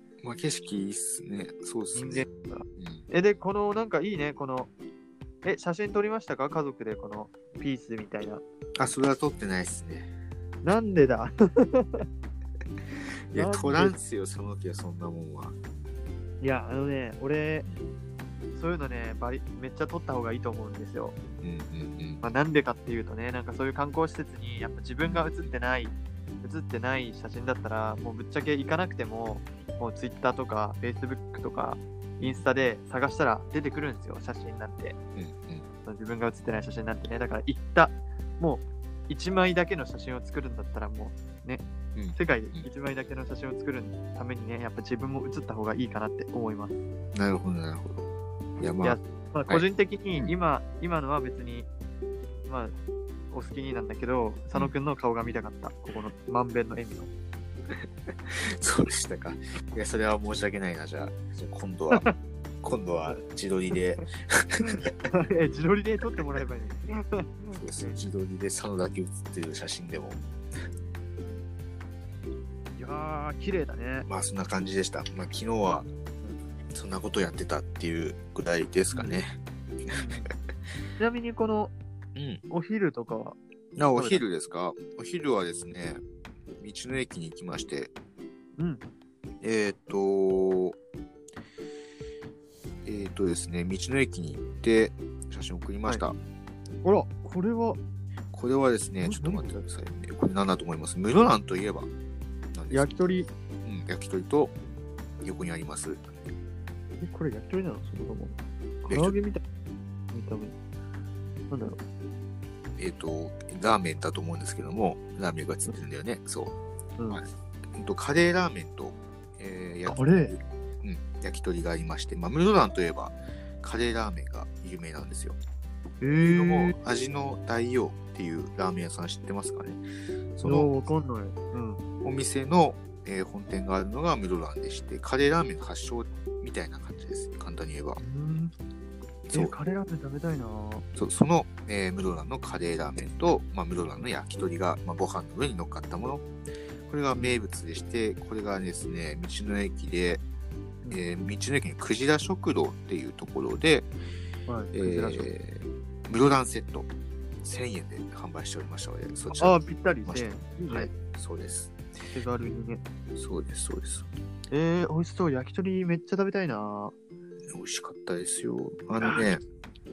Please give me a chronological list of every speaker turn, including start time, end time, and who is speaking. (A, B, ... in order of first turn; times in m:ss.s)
0:00.2-0:03.1 A
0:01.9-0:04.7 B
0:05.4-0:08.4 B
0:08.8-0:10.1 A
0:10.6-0:12.1 B
0:13.3-0:15.6 A
0:13.3-0:14.0 B
0:16.4-0:17.7 B
0:17.7-0:18.0 A
0:18.5-0:21.2 B
0:21.4-0:22.2 A
0:22.2-0:35.0 B
0:25.0-0:25.5 A
0:35.2-0:35.6 A
0:35.8-0:41.6 B
0:42.0-0:42.7 A
0:42.1-0:46.8 B
0:47.1-0:50.3 A
0:48.8-0:51.7 B
0:52.5-0:52.8 B
0:53.3-0:57.1 B
0:57.7-1:02.1 A
1:02.6-1:04.9 A
1:04.6-1:08.0 B
1:07.5-1:10.2 A
1:12.8-1:14.1 B
1:14.1-1:15.9 A
1:16.7-1:20.0 A
1:18.9-1:19.2 B
1:19.9-1:20.3 B
1:21.0-1:21.7 B
1:22.2-1:22.4 A
1:22.5-1:23.4 B
1:23.8-1:26.0 A
1:23.9-1:24.2 B
1:26.6-1:27.9 A
1:28.6-1:28.8 B
1:29.4-1:30.8 A
1:32.8-1:36.2 A
1:36.8-1:37.8 B
1:38.3-1:41.9 A
1:39.0-1:39.6 B
1:42.5-1:43.1 A
1:42.7-1:43.3 B
1:43.6-1:44.6 A
1:45.2-1:46.1 A
1:47.0-1:49.4 B
1:48.9-1:49.2 A
1:50.1-1:50.5 B
1:51.5-1:51.8 B
1:52.8-1:56.5 A
1:57.0-1:57.2 B
1:57.1-2:05.4 A
1:59.9-2:00.4 B
2:06.0-2:06.8 B
2:06.3-2:09.8 A
2:10.4-2:10.8 A
2:10.4-2:11.8 B
2:12.0-2:18.0 A
2:18.0-2:18.5 B
2:19.3-2:19.6 A
2:19.3-2:20.9 B
2:21.0-2:26.2 A
2:26.9-2:30.2 A
2:27.1-2:27.4 B
2:30.9-2:33.9 A
2:34.5-2:35.3 B
2:34.7-2:36.9 A
2:37.4-2:41.8 A
2:39.3-2:40.9 B
2:42.1-2:42.8 B
2:43.2-2:44.1 A
2:44.5-2:46.9 B
2:47.5-2:49.4 A